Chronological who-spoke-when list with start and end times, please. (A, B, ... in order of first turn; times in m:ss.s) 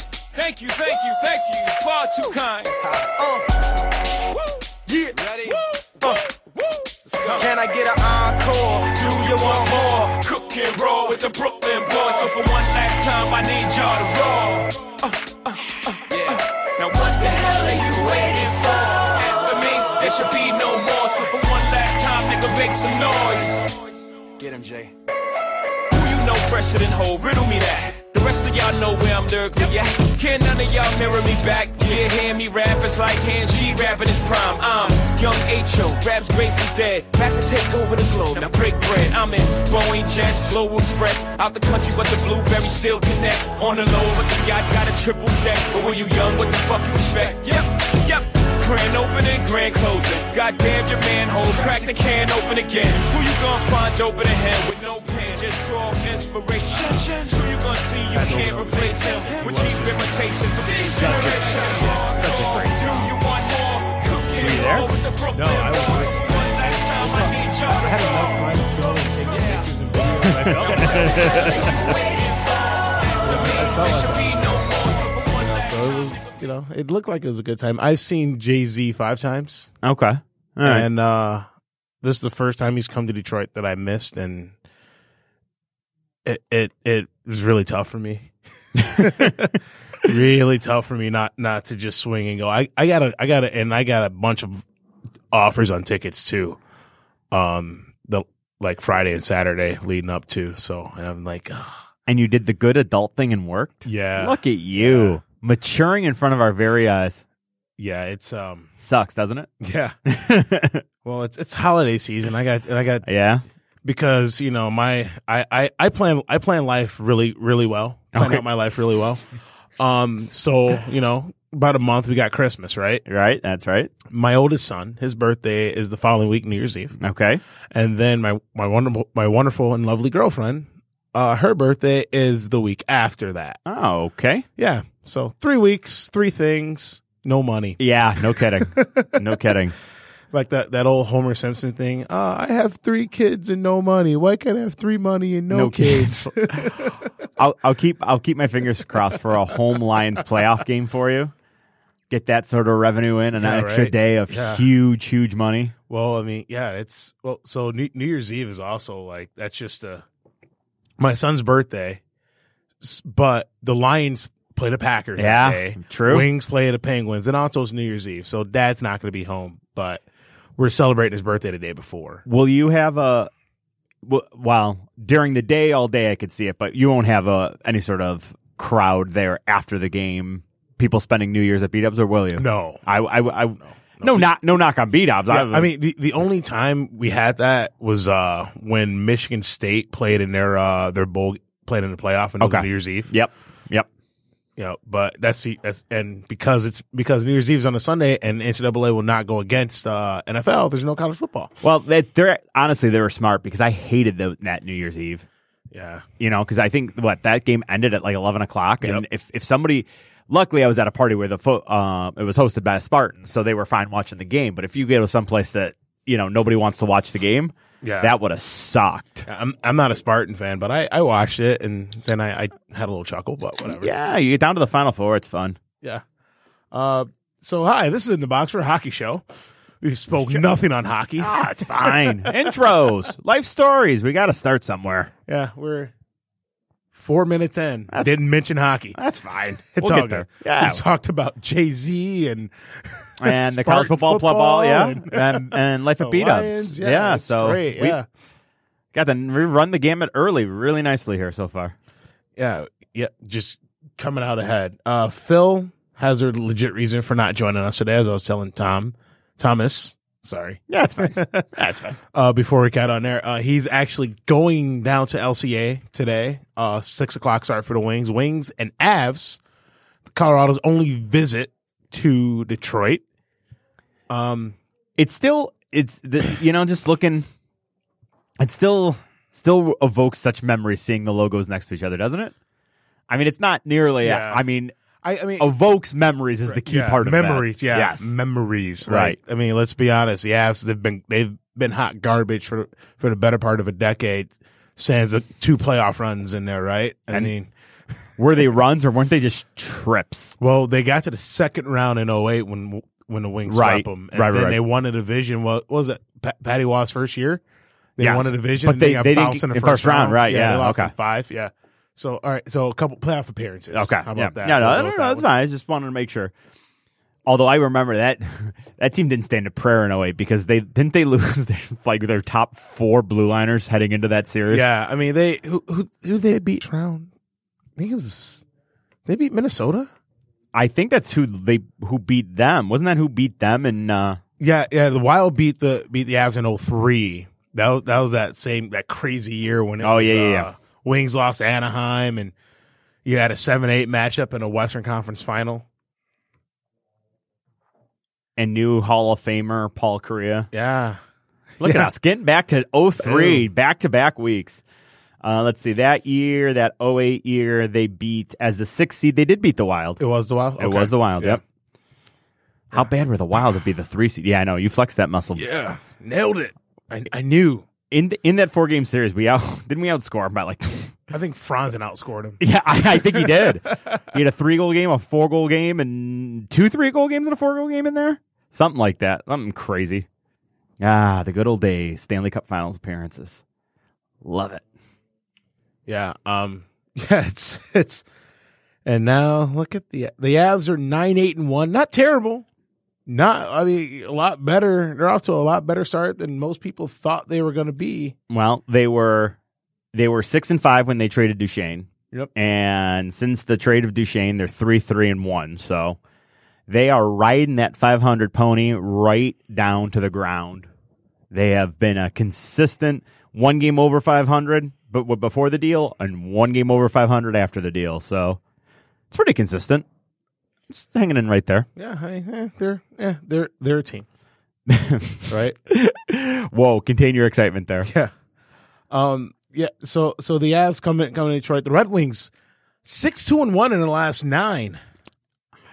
0:00.3-0:02.8 A
0:02.8-0:03.4 B
0:04.4-0:07.5 A
0:05.1-0:05.6 B
0:07.1-0:08.9 B
0:08.8-0:23.7 A
0:16.1-0:16.4 B
0:24.4-0:24.9 B
0:25.9-1:08.4 A
0:58.1-1:02.9 C
1:02.3-1:02.7 D
1:04.4-1:04.9 D
1:05.3-1:11.8 C
1:10.3-1:11.7 D
1:10.6-1:16.4 A
1:13.2-1:14.6 C
1:15.4-1:19.7 C
1:19.8-1:20.9 D
1:20.6-1:21.4 C
1:22.0-1:24.5 C
1:26.2-1:34.6 C
1:28.8-1:29.5 D
1:35.3-1:36.6 C
1:37.3-1:41.8 C
1:42.1-1:47.2 D
1:43.8-1:45.2 C
1:47.8-1:48.7 C
1:48.8-1:49.5 D
1:49.6-1:49.9 C
1:50.1-1:50.8 D
1:51.0-1:53.0 C
1:53.0-1:53.4 D
1:53.8-1:59.2 C
1:58.1-1:58.4 D
1:59.8-2:03.0 C
2:03.0-2:03.9 D
2:04.1-2:07.0 C
2:07.0-2:07.4 D
2:07.7-2:13.6 C
2:13.6-2:14.4 D
2:14.6-2:17.8 C
2:17.8-2:19.7 D
2:18.3-2:19.1 C
2:20.3-2:26.9 C
2:25.5-2:31.3 D
2:32.1-2:35.7 D
2:33.4-2:34.6 C
2:35.9-2:40.0 C
2:41.0-2:42.0 C
2:42.8-2:50.0 C
2:45.2-2:46.3 D
2:50.6-2:52.2 C
2:52.2-2:53.3 D
2:54.0-3:05.7 D
3:02.4-3:02.8 C
3:03.6-3:04.3 C
3:05.3-3:13.1 C
3:12.4-3:13.9 D
3:14.6-3:21.5 C
3:21.6-3:25.2 D
3:25.7-3:26.0 C
3:26.2-3:39.3 D
3:37.8-3:38.1 C
3:39.3-3:43.9 C
3:43.8-3:45.6 D
3:46.7-3:49.2 C
3:49.8-3:52.7 C
3:51.2-3:55.1 D
3:55.3-3:55.9 C
3:56.9-3:59.0 C
3:58.9-4:00.8 D
3:59.7-4:08.0 C
4:03.2-4:08.0 D
4:08.9-4:11.7 D
4:12.4-4:21.5 C
4:20.7-4:22.0 D
4:22.1-4:29.4 C
4:30.1-4:33.0 C
4:34.1-4:34.6 C
4:35.0-4:37.2 D
4:38.4-4:42.3 D
4:43.1-4:44.7 D
4:44.0-4:44.4 C
4:45.0-4:45.5 C
4:45.4-4:48.1 D
4:46.4-4:57.5 C
4:48.8-4:49.2 D
4:58.2-5:00.3 D
5:00.4-5:07.4 C
5:03.5-5:04.6 D
5:08.0-5:15.2 C
5:08.0-5:10.9 D
5:13.7-5:16.3 D
5:17.2-5:24.6 D
5:24.5-5:27.1 C
5:27.8-5:28.4 C
5:29.0-5:29.9 C
5:30.5-5:34.2 D
5:34.4-5:42.3 C
5:39.8-5:40.5 D
5:43.0-5:45.6 C
5:48.4-5:50.5 D
5:50.5-5:51.0 C
5:51.6-5:54.6 D
5:51.6-5:51.9 C
5:53.0-5:53.5 C
5:55.2-6:00.0 D
6:00.0-6:01.4 C
6:00.6-6:01.4 D
6:02.7-6:05.5 D
6:05.3-6:07.6 C
6:07.9-6:11.0 D
6:11.1-6:12.4 C
6:12.4-6:20.0 D
6:12.9-6:14.0 C
6:20.8-6:23.4 D
6:24.2-6:24.6 D
6:25.8-6:28.0 C
6:28.8-6:32.4 C
6:33.0-6:38.1 C
6:38.3-6:39.4 D
6:39.9-6:46.0 D
6:46.7-6:50.7 D
6:51.3-6:58.4 D
6:59.1-6:59.8 D
7:00.7-7:01.7 D
7:01.8-7:04.0 C
7:04.7-7:07.9 D
7:05.3-7:05.6 C
7:07.8-7:08.1 C
7:08.9-7:12.3 C
7:12.8-7:14.8 C